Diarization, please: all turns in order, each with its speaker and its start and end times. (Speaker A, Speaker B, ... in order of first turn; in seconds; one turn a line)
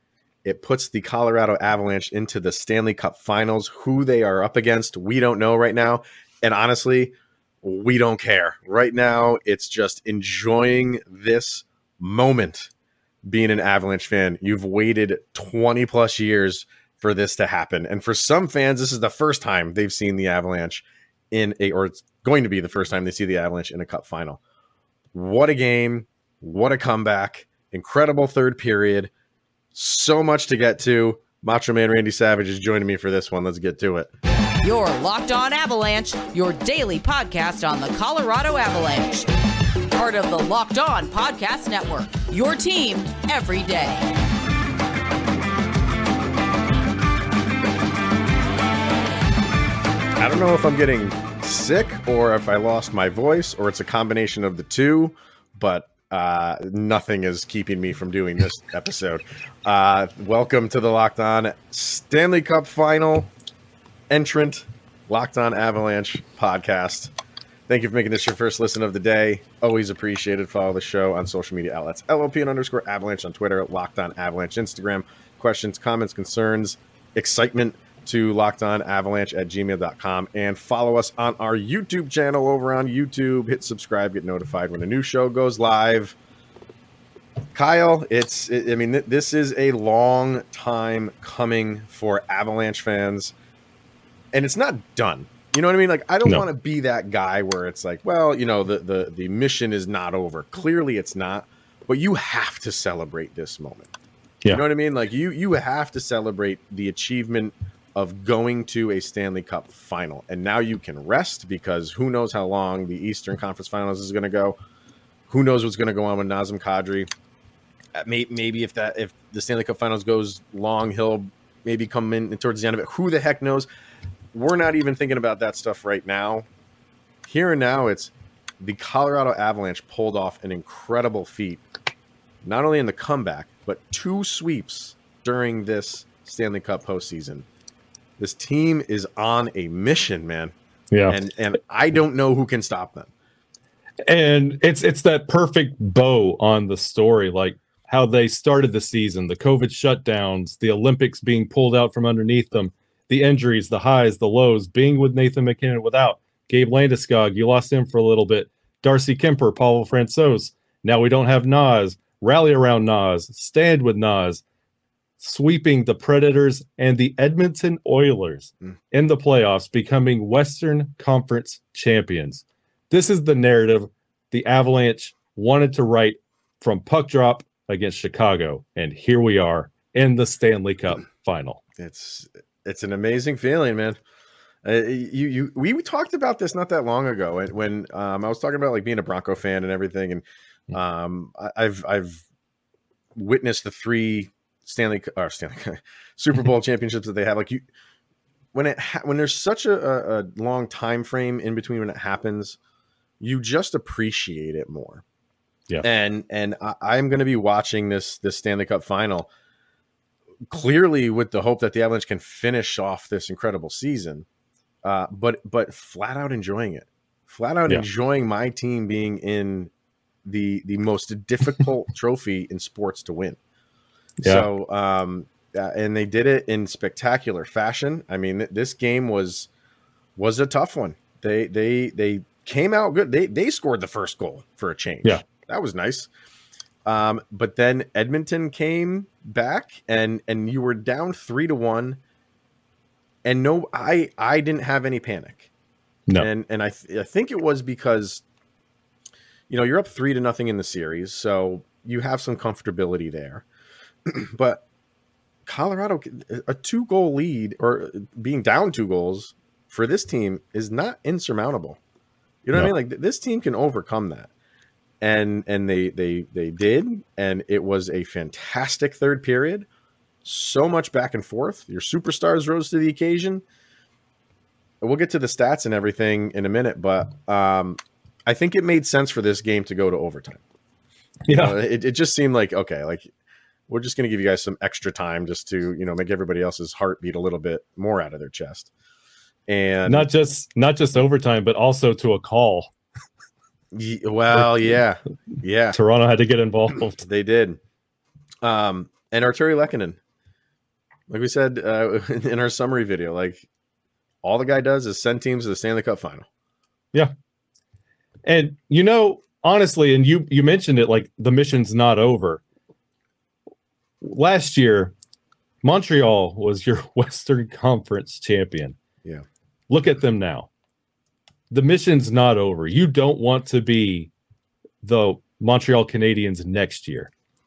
Speaker A: 0.4-12.7
Speaker A: 13.3-24.4
Speaker A: 25.1-29.1
Speaker A: 29.7-34.1
Speaker B: 34.6-39.3
Speaker B: 39.9-44.1
Speaker A: 50.2-63.3
Speaker A: 64.1-67.1
Speaker A: 67.7-86.2
Speaker A: 87.5-93.3
Speaker A: 94.3-103.9
Speaker A: 104.5-114.6
Speaker A: 115.3-117.1
Speaker A: 118.0-123.7
Speaker A: 124.3-126.5
Speaker A: 127.3-131.6
Speaker A: 132.4-137.5
Speaker A: 138.2-140.5
Speaker C: 140.9-141.2
Speaker A: 141.1-143.1
Speaker C: 144.1-164.4
Speaker C: 165.2-181.6
Speaker A: 181.8-184.0
Speaker A: 184.6-192.2
Speaker A: 193.2-197.7
Speaker A: 198.5-202.6
Speaker A: 203.2-205.0
Speaker A: 205.8-209.3
Speaker A: 210.5-214.3
Speaker A: 214.8-219.7
Speaker A: 220.2-223.4
Speaker C: 224.2-224.5
Speaker A: 224.2-229.5
Speaker A: 230.2-236.1
Speaker A: 236.9-242.0
Speaker A: 243.2-245.5
Speaker A: 246.2-248.2
Speaker A: 249.5-253.4
Speaker A: 254.1-254.6
Speaker A: 255.5-261.8
Speaker A: 262.4-264.3
Speaker A: 265.0-269.7
Speaker A: 270.2-273.4
Speaker A: 274.8-280.4
Speaker C: 281.3-281.6
Speaker A: 281.3-283.1
Speaker A: 283.7-288.7
Speaker A: 289.5-290.1
Speaker C: 289.9-292.7
Speaker A: 293.7-295.8
Speaker C: 294.3-294.6
Speaker C: 295.7-297.1
Speaker A: 297.0-297.6
Speaker A: 298.4-300.0
Speaker A: 301.1-303.5
Speaker A: 304.2-306.3
Speaker C: 308.2-312.4
Speaker C: 314.0-314.9
Speaker C: 315.6-318.8
Speaker C: 319.7-320.5
Speaker C: 321.5-324.1
Speaker C: 324.8-327.1